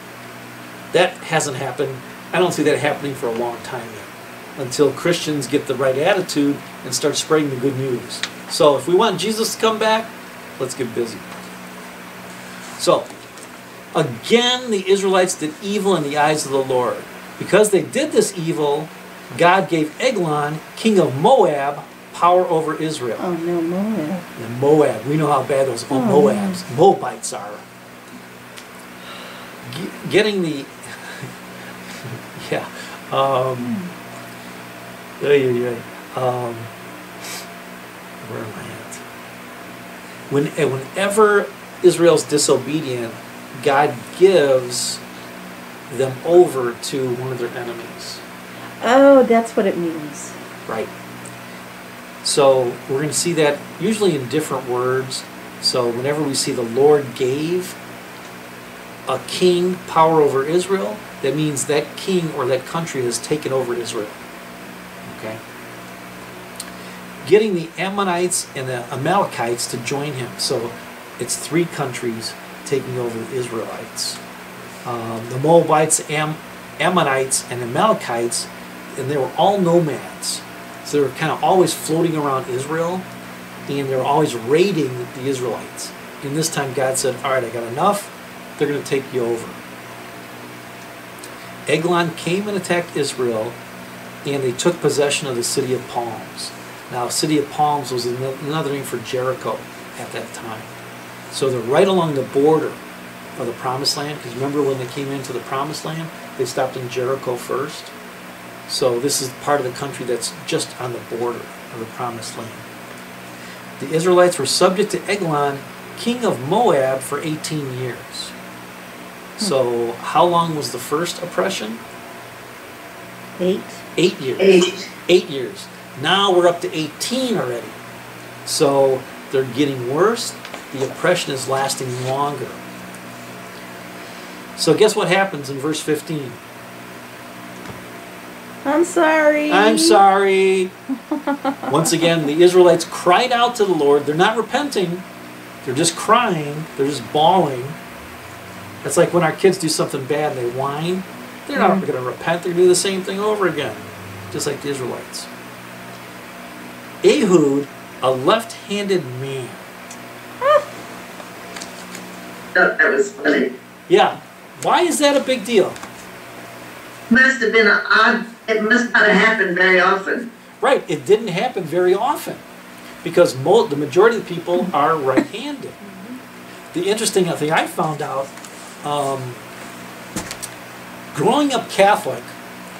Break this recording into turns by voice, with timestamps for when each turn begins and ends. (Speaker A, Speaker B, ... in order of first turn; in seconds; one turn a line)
Speaker A: 0.9-11.3
Speaker A: 12.8-13.1
Speaker A: 13.9-23.2
Speaker B: 23.2-24.2
Speaker A: 24.4-27.6
Speaker B: 25.9-26.6
Speaker A: 29.6-31.3
Speaker A: 31.9-33.8
Speaker B: 33.6-33.9
Speaker A: 35.2-36.7
Speaker A: 38.2-39.0
Speaker A: 40.3-45.0
Speaker A: 45.9-48.2
Speaker B: 48.8-50.4
Speaker A: 50.6-50.9
Speaker A: 52.2-57.8
Speaker A: 59.0-64.2
Speaker A: 65.0-65.4
Speaker A: 67.2-74.2
Speaker A: 74.8-83.1
Speaker A: 83.7-89.6
Speaker A: 91.7-93.6
Speaker A: 94.2-100.7
Speaker A: 101.3-102.8
Speaker A: 103.4-107.9
Speaker A: 108.7-112.7
Speaker A: 113.8-118.3
Speaker A: 119.4-121.8
Speaker B: 123.4-123.8
Speaker A: 124.0-127.8
Speaker C: 124.4-124.8
Speaker A: 128.4-132.6
Speaker A: 134.6-136.4
Speaker B: 138.6-140.0
Speaker A: 139.5-140.7
Speaker A: 141.7-145.1
Speaker A: 145.6-147.8
Speaker A: 148.8-155.3
Speaker B: 151.6-151.8
Speaker A: 157.0-159.6
Speaker C: 162.5-163.5
Speaker A: 163.9-165.8
Speaker C: 167.1-170.3
Speaker A: 170.6-172.4
Speaker A: 173.0-175.8
Speaker A: 176.7-178.3
Speaker A: 178.8-179.4
Speaker A: 181.1-182.3